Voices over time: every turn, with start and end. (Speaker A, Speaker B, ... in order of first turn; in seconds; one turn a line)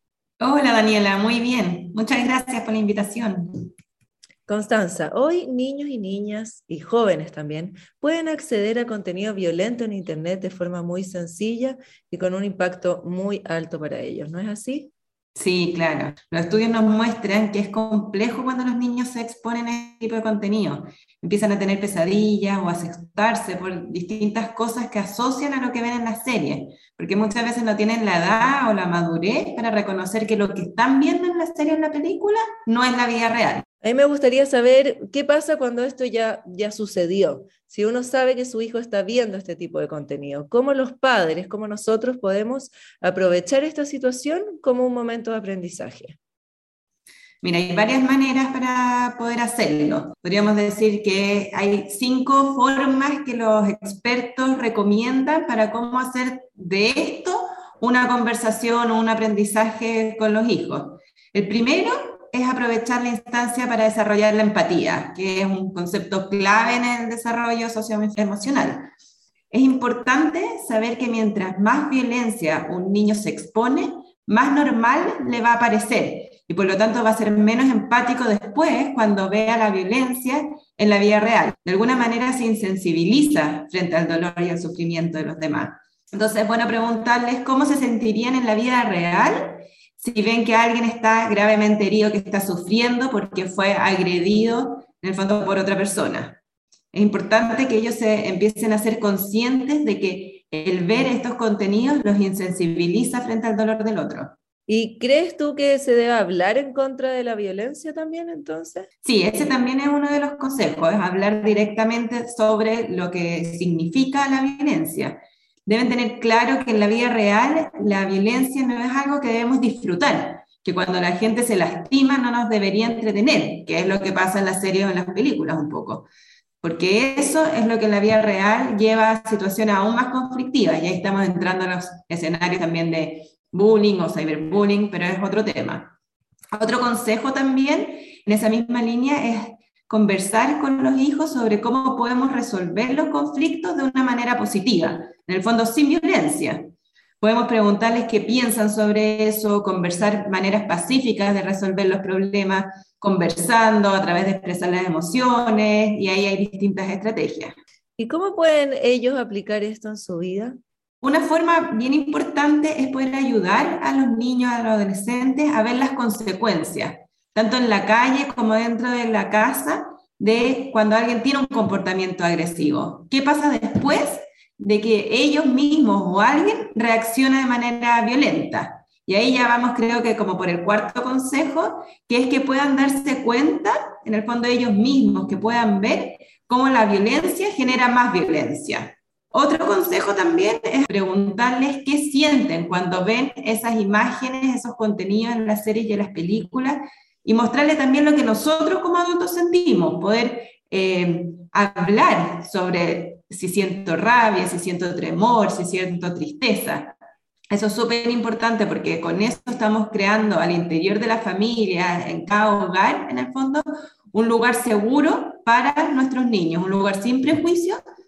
Speaker A: 0.4-3.7
Speaker B: 4.5-14.9
Speaker A: 15.3-33.6
Speaker B: 33.8-46.2
Speaker A: 47.4-68.9
Speaker A: 69.5-96.4
Speaker A: 96.9-104.3
Speaker B: 104.7-108.9
Speaker A: 109.0-126.0
Speaker A: 126.6-135.9
Speaker A: 136.5-146.6
Speaker A: 147.2-157.5
Speaker B: 158.0-160.6
Speaker A: 161.0-206.9
Speaker A: 207.5-217.8